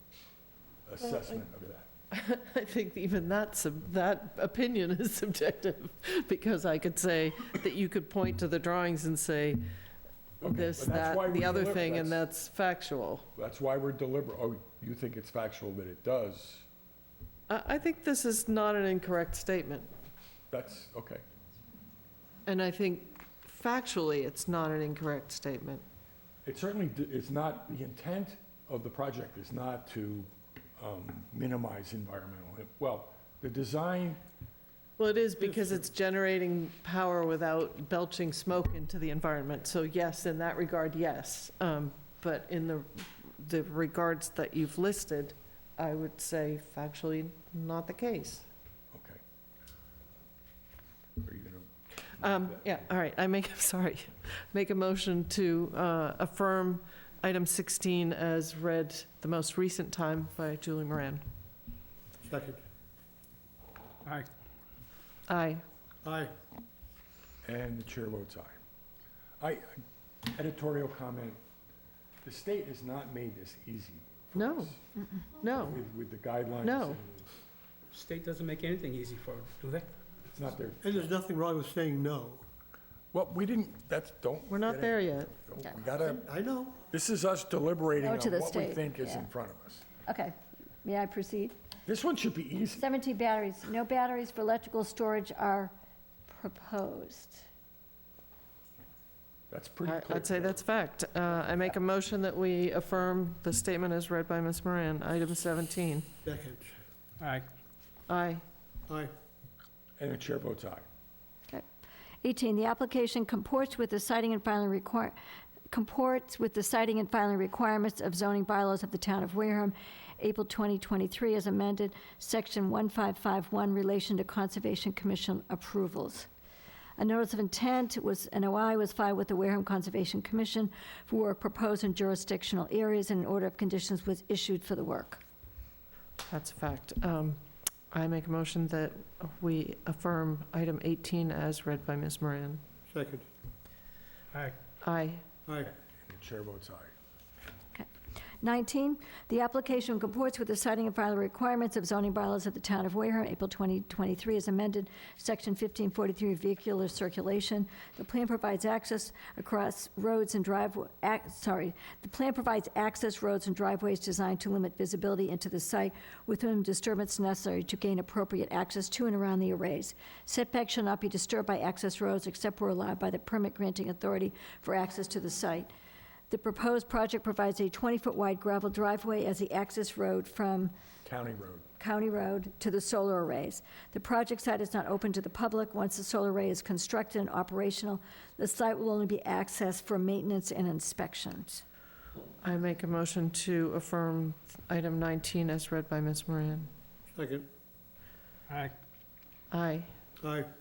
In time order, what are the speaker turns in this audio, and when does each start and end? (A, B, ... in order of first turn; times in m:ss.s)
0:00.9-0:01.9 A
0:02.1-0:09.6 B
0:10.4-0:12.2 A
0:10.4-0:13.3 B
0:13.4-0:16.7 A
0:17.5-0:19.9 B
0:20.5-0:21.2 A
0:22.5-0:25.8 B
0:26.4-0:34.2 A
0:35.0-0:48.5 B
0:48.9-0:49.2 A
0:51.2-0:51.7 A
0:52.2-1:01.2 B
1:02.2-1:02.6 C
1:05.3-1:05.6 B
1:06.0-1:06.3 C
1:07.4-1:08.6 A
1:09.4-1:09.8 A
1:10.3-1:11.4 A
1:12.2-1:14.7 A
1:14.3-1:14.8 B
1:15.4-1:15.8 B
1:15.6-1:17.3 A
1:16.6-1:17.0 B
1:17.9-1:19.9 D
1:20.3-1:21.2 A
1:20.8-1:22.4 C
1:23.1-1:26.3 A
1:24.5-1:25.3 B
1:26.1-1:26.8 C
1:26.9-1:29.9 A
1:28.0-1:29.3 E
1:30.0-1:31.6 E
1:31.9-1:32.9 A
1:32.8-1:35.7 E
1:36.3-1:37.4 E
1:39.5-1:40.6 A
1:39.8-1:46.1 B
1:46.2-1:46.8 C
1:47.2-1:47.5 D
1:48.1-1:48.4 B
1:48.9-1:49.1 C
1:50.0-1:50.9 A
1:52.2-1:55.2 E
1:55.7-2:06.3 E
2:07.0-2:15.2 E
2:16.3-2:22.6 B
2:22.9-2:23.3 C
2:24.8-2:25.2 B
2:25.5-2:25.7 C
2:26.0-2:26.9 A
2:28.4-2:55.7 E
2:56.3-3:00.7 E
3:01.0-3:01.7 A
3:01.8-3:11.6 E
3:12.4-3:16.7 B
3:17.1-3:17.5 C
3:19.5-3:19.9 B
3:20.2-3:20.5 C